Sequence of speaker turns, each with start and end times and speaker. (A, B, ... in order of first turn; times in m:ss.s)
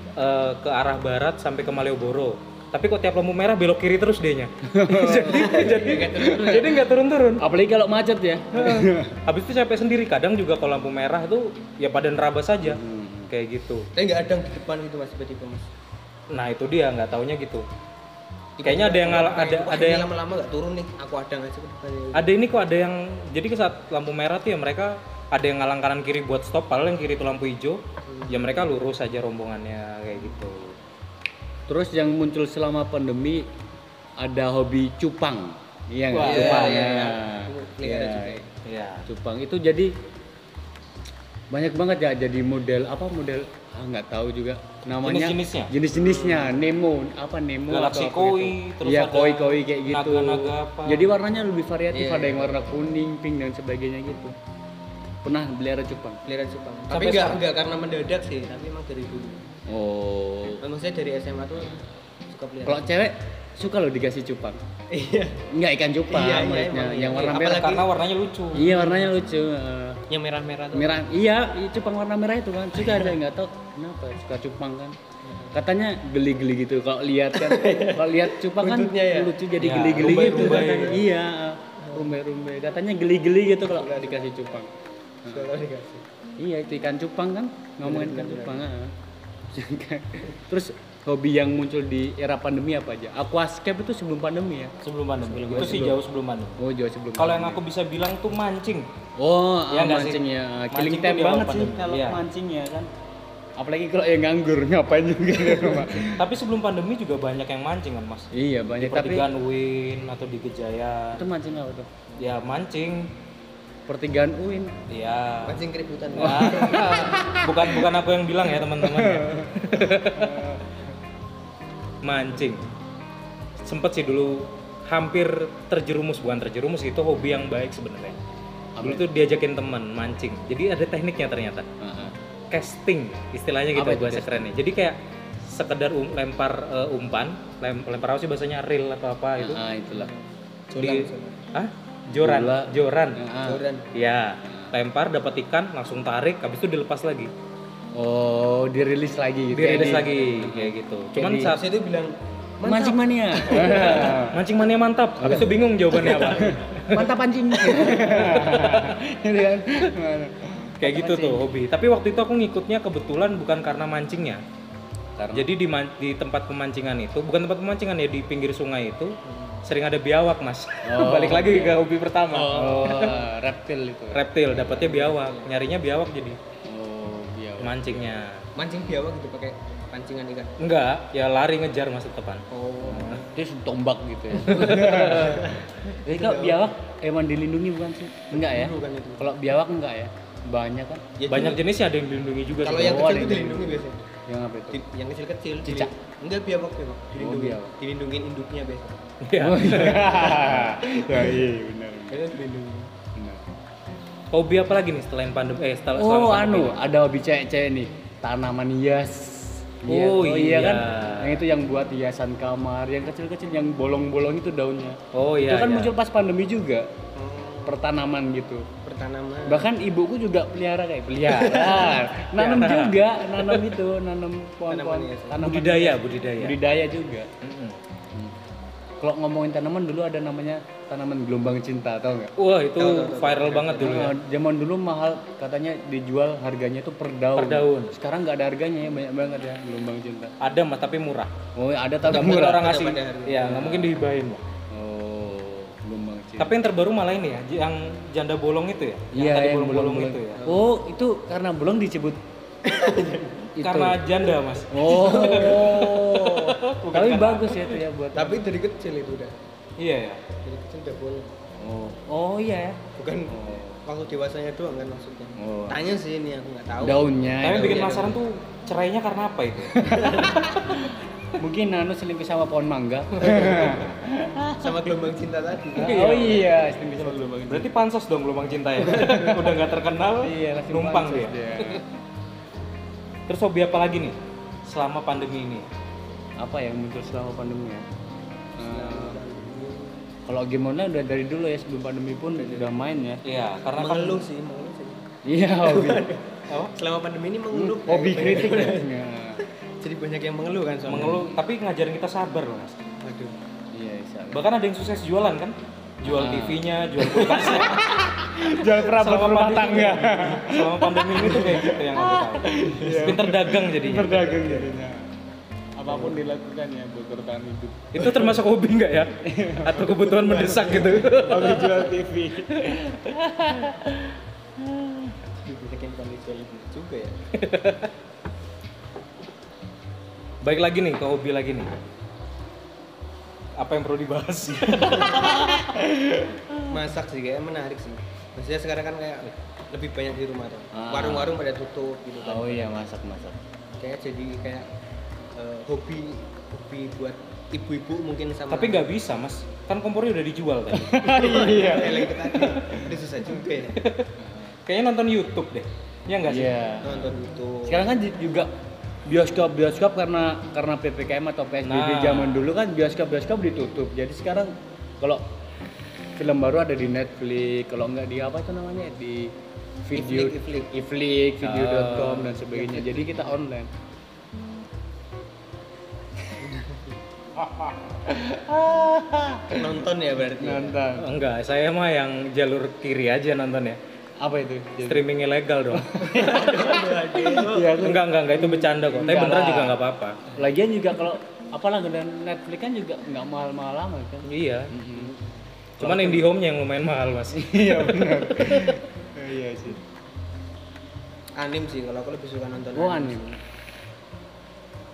0:00.2-0:07.5 A
0:04.7-0:06.8 B
0:05.3-0:06.8 C
0:07.4-0:09.2 B
0:08.6-0:13.8 A
0:12.6-0:13.3 B
0:13.9-0:15.7 C
0:16.3-0:17.6 A
0:18.6-0:22.3 C
0:18.6-0:20.1 A
0:22.1-0:30.7 A
0:28.0-0:28.6 C
0:31.7-0:33.4 B
0:34.2-0:38.4 B
0:36.1-0:36.9 A
0:36.2-0:38.4 C
0:38.6-0:39.1 A
0:39.1-0:39.9 B
0:41.5-0:54.3 B
0:45.0-0:45.7 A
0:46.0-0:46.6 C
0:47.7-0:51.1 A
0:51.9-0:52.8 C
0:55.2-0:56.2 B
0:56.2-0:59.4 C
0:56.9-0:57.4 A
0:59.7-1:00.6 B
1:00.6-1:02.8 C
1:02.6-1:04.6 B
1:04.9-1:05.4 C
1:05.5-1:07.8 B
1:06.1-1:07.9 C
1:07.2-1:08.7 A
1:08.5-1:10.0 B
1:08.6-1:09.1 C
1:10.1-1:11.0 C
1:10.7-1:15.0 B
1:12.8-1:13.1 C
1:15.2-1:15.5 C
1:15.5-1:24.7 B
1:17.3-1:21.0 C
1:19.6-1:21.0 A
1:21.8-1:22.0 C
1:23.7-1:24.6 C
1:25.3-1:26.0 C
1:26.4-1:28.9 B
1:27.8-1:28.7 C
1:29.5-1:36.0 B
1:34.8-1:36.6 A
1:35.5-1:35.9 C
1:36.6-1:37.6 B
1:37.2-1:38.8 A
1:39.2-1:42.9 B
1:39.7-1:42.2 A
1:43.6-1:46.2 B
1:46.0-1:48.3 A
1:48.3-1:49.2 B
1:48.8-1:51.2 A
1:51.1-1:52.0 B
1:52.2-1:53.0 A
1:53.9-1:54.7 B
1:54.9-1:55.6 A
1:55.4-1:56.9 C
1:56.1-2:00.5 A
1:56.2-1:57.8 B
1:58.8-1:59.4 B
2:00.0-2:00.8 B
2:02.0-2:02.6 A
2:03.6-2:08.2 A
2:08.8-2:09.1 B
2:08.8-2:11.6 A
2:11.8-2:12.2 B
2:12.5-2:19.6 A
2:13.7-2:14.5 B
2:19.4-2:20.1 B
2:19.9-2:21.4 C
2:20.8-2:23.2 A
2:22.2-2:23.6 B
2:23.4-2:23.9 C
2:23.9-2:27.3 A
2:27.9-2:31.6 B
2:29.5-2:31.6 A
2:31.4-2:34.3 C
2:32.6-2:34.4 B
2:33.6-2:39.0 A
2:35.2-2:41.4 B
2:36.0-2:36.5 C
2:40.8-2:44.4 A
2:45.2-2:45.5 B
2:45.3-2:53.2 A
2:49.2-2:49.6 C
2:50.8-2:51.8 B
2:52.3-2:53.2 C
2:52.5-2:55.1 B
2:54.1-2:56.4 A
2:55.0-2:55.5 C
2:56.6-2:58.1 B
2:57.6-2:58.4 A
2:58.6-3:00.6 C
3:00.6-3:03.2 A
3:02.5-3:03.2 C
3:02.8-3:05.5 B
3:04.3-3:05.5 A
3:04.5-3:06.7 C
3:06.0-3:11.1 B
3:08.3-3:09.3 C
3:11.2-3:11.6 C
3:11.3-3:13.1 A
3:12.6-3:14.1 C
3:12.7-3:14.8 B
3:14.7-3:19.0 C
3:15.6-3:15.9 B
3:17.2-3:17.7 B
3:19.2-3:20.7 A
3:19.4-3:22.2 B
3:21.0-3:21.4 C
3:22.1-3:22.9 C
3:23.2-3:23.4 B
3:24.3-3:26.9 A
3:25.9-3:36.9 B
3:29.9-3:31.4 A
3:35.1-3:35.9 A
3:37.2-3:37.8 C
3:37.6-3:38.6 B
3:38.8-3:39.7 C
3:39.5-3:47.3 B
3:41.3-3:42.0 C
3:42.2-3:43.8 A
3:44.7-3:45.4 C
3:45.4-3:46.6 A
3:47.4-3:47.8 A
3:49.0-3:52.3 B
3:52.4-3:54.1 A
3:52.8-3:54.0 C
3:53.8-4:00.3 B
3:57.4-3:58.0 A
4:00.4-4:01.3 A
4:01.6-4:02.7 B
4:02.0-4:04.4 A
4:02.5-4:03.5 C
4:03.4-4:04.0 B
4:04.7-4:06.5 B
4:06.4-4:10.4 A
4:09.1-4:12.2 B
4:10.4-4:10.7 C
4:12.6-4:13.3 C
4:13.6-4:14.0 B
4:13.6-4:17.8 A
4:14.7-4:18.4 B
4:15.0-4:15.9 C
4:18.1-4:19.4 C
4:19.8-4:20.2 A
4:20.4-4:21.3 C
4:21.6-4:22.7 B
4:22.9-4:28.2 C
4:23.3-4:23.8 B
4:25.4-4:25.8 B
4:26.8-4:28.1 B
4:27.4-4:30.4 A
4:29.7-4:34.8 B
4:29.9-4:30.3 C
4:33.2-4:33.8 C
4:34.6-4:36.4 C
4:35.7-4:37.7 B
4:35.8-4:36.4 A
4:37.5-4:41.8 A
4:39.0-4:39.6 B
4:40.2-4:41.8 B
4:43.3-4:44.2 A
4:44.7-4:45.7 A
4:46.4-4:47.8 B
4:48.6-4:50.0 C
4:48.6-4:49.2 B
4:50.2-4:53.2 B
4:52.4-4:53.0 C
4:53.2-4:54.2 A
4:53.8-4:55.0 C
4:55.2-4:56.1 B
4:55.6-4:58.9 C
4:57.5-4:59.4 B
4:59.8-5:01.3 C
5:00.9-5:02.8 A
5:00.9-5:01.3 B
5:03.0-5:03.3 C
5:03.7-5:04.4 B
5:04.3-5:07.9 A
5:06.0-5:15.1 B
5:08.5-5:14.4 A
5:10.0-5:10.4 C
5:11.2-5:11.7 C
5:12.6-5:13.0 C
5:14.4-5:14.7 C
5:15.8-5:18.3 B
5:15.9-5:16.2 C
5:17.9-5:21.8 A
5:19.2-5:19.8 B
5:19.7-5:21.9 C
5:21.2-5:22.8 B
5:22.5-5:24.0 A
5:25.4-5:27.1 C
5:27.4-5:27.9 A
5:30.4-5:31.7 A
5:33.6-5:36.6 A
5:36.7-5:42.8 C
5:40.7-5:41.4 B
5:42.2-5:43.4 B
5:43.8-5:44.7 C
5:45.3-5:48.9 C
5:48.5-5:51.5 A
5:50.7-5:52.8 B
5:51.0-5:53.8 C
5:53.8-5:54.1 A
5:54.2-5:54.5 B
5:54.6-5:56.6 A
5:56.2-5:58.5 B
5:56.8-5:57.9 C
5:59.0-6:05.2 B
6:01.6-6:02.5 A
6:06.2-6:09.3 B
6:09.8-6:13.7 B
6:09.9-6:10.7 C
6:11.4-6:12.4 A
6:12.5-6:13.3 C
6:17.4-6:21.1 B
6:19.5-6:20.8 C
6:21.0-6:23.8 A
6:24.2-6:25.0 B
6:24.8-6:26.7 A
6:25.7-6:29.8 B
6:26.0-6:27.8 C
6:27.8-6:30.2 A
6:30.3-6:35.2 B
6:34.2-6:34.7 A
6:35.8-6:36.3 B
6:35.8-6:38.8 A
6:37.3-6:39.8 B
6:41.4-6:43.4 C
6:42.7-6:43.2 B